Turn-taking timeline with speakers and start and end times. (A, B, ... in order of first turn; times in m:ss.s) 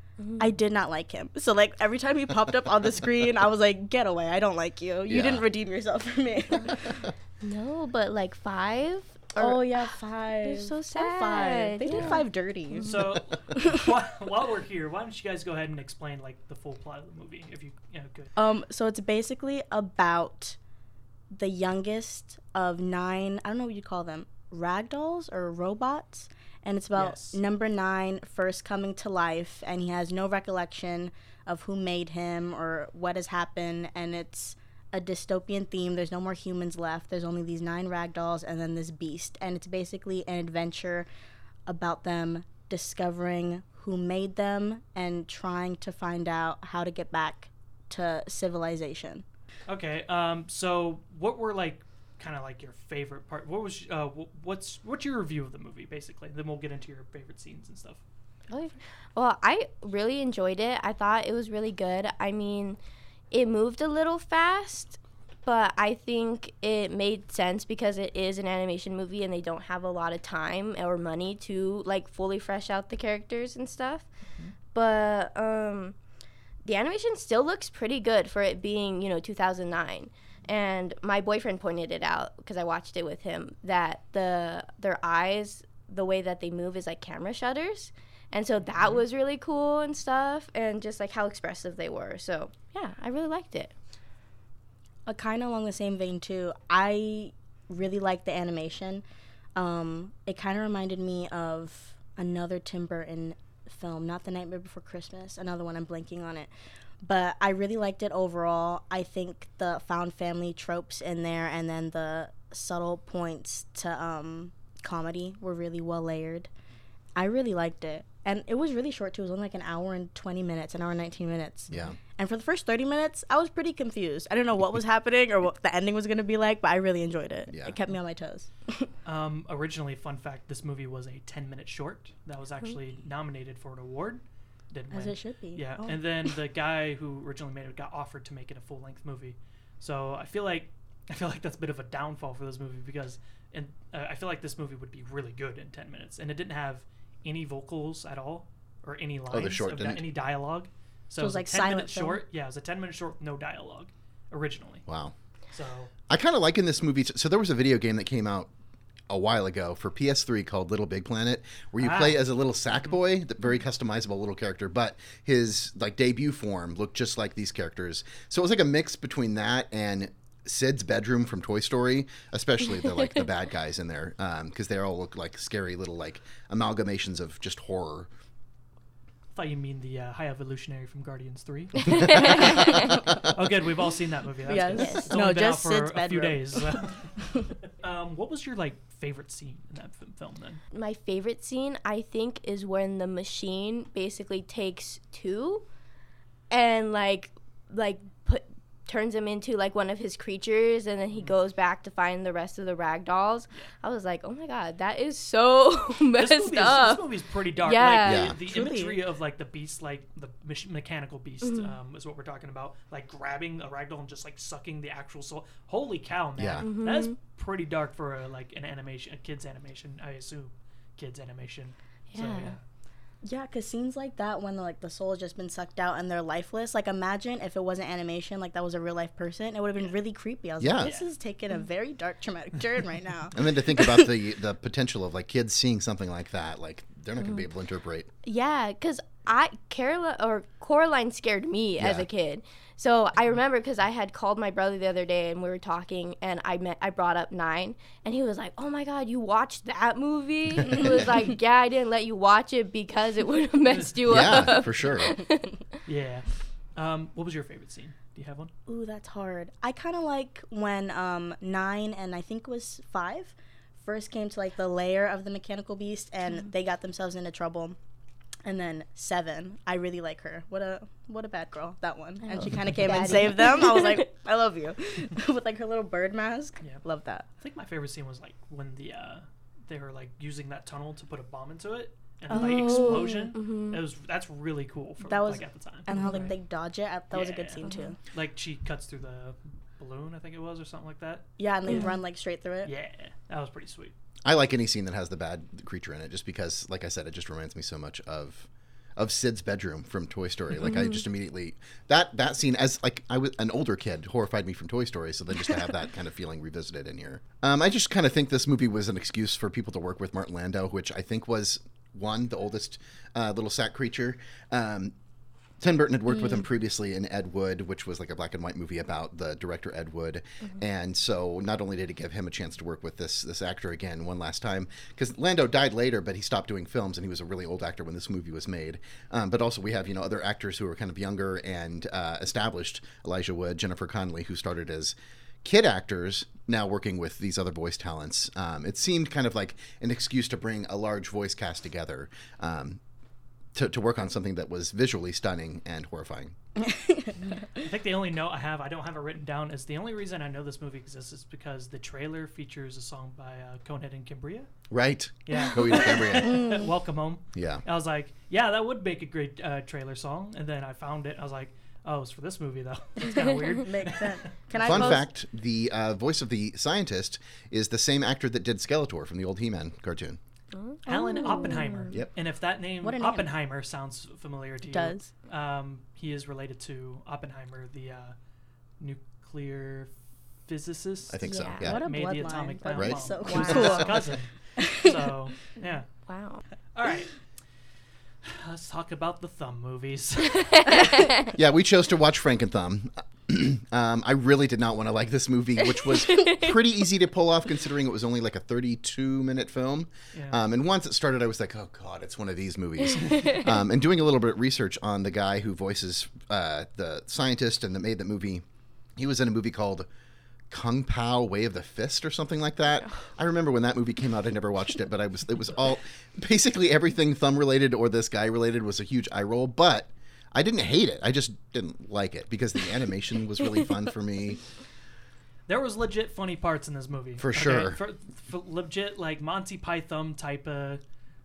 0:00.2-0:00.5 A
0:00.4-0:07.1 B
0:05.1-0:05.4 C
0:07.4-0:09.7 A
0:09.4-0:13.0 B
0:10.4-0:12.1 A
0:11.9-0:12.2 D
0:12.7-0:13.0 A
0:12.8-0:18.3 D
0:18.4-0:20.6 B
0:21.3-0:41.1 B
0:27.0-0:27.4 D
0:41.7-0:49.2 B
0:49.7-0:58.0 D
0:58.5-1:02.8 A
1:03.3-1:14.1 A
1:14.7-1:16.0 A
1:16.6-1:33.7 A
1:35.1-1:39.0 B
1:39.6-1:46.5 B
1:47.0-1:56.5 B
1:57.2-2:08.9 B
2:01.7-2:02.0 C
2:07.5-2:07.8 C
2:09.0-2:34.8 D
2:14.9-2:16.2 B
2:29.3-2:30.0 C
2:31.2-2:32.2 B
2:34.9-2:35.1 C
2:35.5-2:35.9 D
2:36.1-2:38.5 C
2:39.1-2:58.1 C
2:41.8-2:42.3 D
2:59.3-3:10.6 D
3:02.2-3:02.9 A
3:04.5-3:06.8 B
3:04.8-3:05.1 A
3:10.7-3:15.7 A
3:16.5-3:28.3 A
3:26.2-3:42.6 D
3:28.0-3:28.4 C
3:28.3-3:29.0 B
3:31.4-3:31.8 A
3:36.4-3:36.7 C
3:36.6-3:37.2 A
3:42.1-3:42.6 A
3:43.2-3:53.4 B
3:50.6-3:50.9 C
3:50.8-3:51.1 D
3:53.4-3:58.1 C
3:57.2-3:57.4 A
3:58.2-4:15.7 A
4:01.8-4:02.1 C
4:13.7-4:14.4 D
4:14.1-4:15.2 C
4:15.9-4:18.5 D
4:18.7-4:27.8 B
4:28.4-4:37.3 B
4:32.2-4:34.0 A
4:37.4-4:46.3 D
4:42.3-4:43.2 B
4:42.3-4:43.8 A
4:45.0-4:48.0 B
4:46.0-4:46.2 A
4:47.1-4:51.9 D
4:47.7-4:47.9 A
4:51.4-4:52.7 B
4:52.6-4:53.9 D
4:54.2-5:14.9 C
5:00.7-5:01.0 A
5:15.6-5:42.8 C
5:43.6-5:46.3 C
5:46.6-5:47.1 B
5:47.3-5:54.5 D
5:54.7-5:56.4 C
5:55.2-6:04.3 D
5:56.2-5:56.7 B
5:57.4-5:57.6 C
6:03.0-6:05.1 B
6:04.6-6:10.2 C
6:04.7-6:05.1 A
6:10.5-6:12.0 A
6:10.9-6:18.2 D
6:11.0-6:11.5 B
6:12.8-6:13.3 B
6:14.7-6:15.1 B
6:18.8-6:19.9 D
6:20.5-6:25.9 D
6:21.1-6:21.9 C
6:21.2-6:21.7 A
6:21.6-6:24.0 B
6:22.7-6:23.9 C
6:23.2-6:23.8 A
6:24.6-6:25.1 B
6:26.1-6:26.4 A
6:26.7-6:27.1 D
6:28.2-6:30.9 D
6:30.7-6:31.2 A
6:31.3-6:48.4 C
6:35.9-6:36.5 A
6:40.1-6:40.4 D
6:43.0-6:43.4 A
6:49.0-6:49.9 C
6:50.5-7:04.4 C
7:05.5-7:10.8 D
7:07.2-7:07.8 C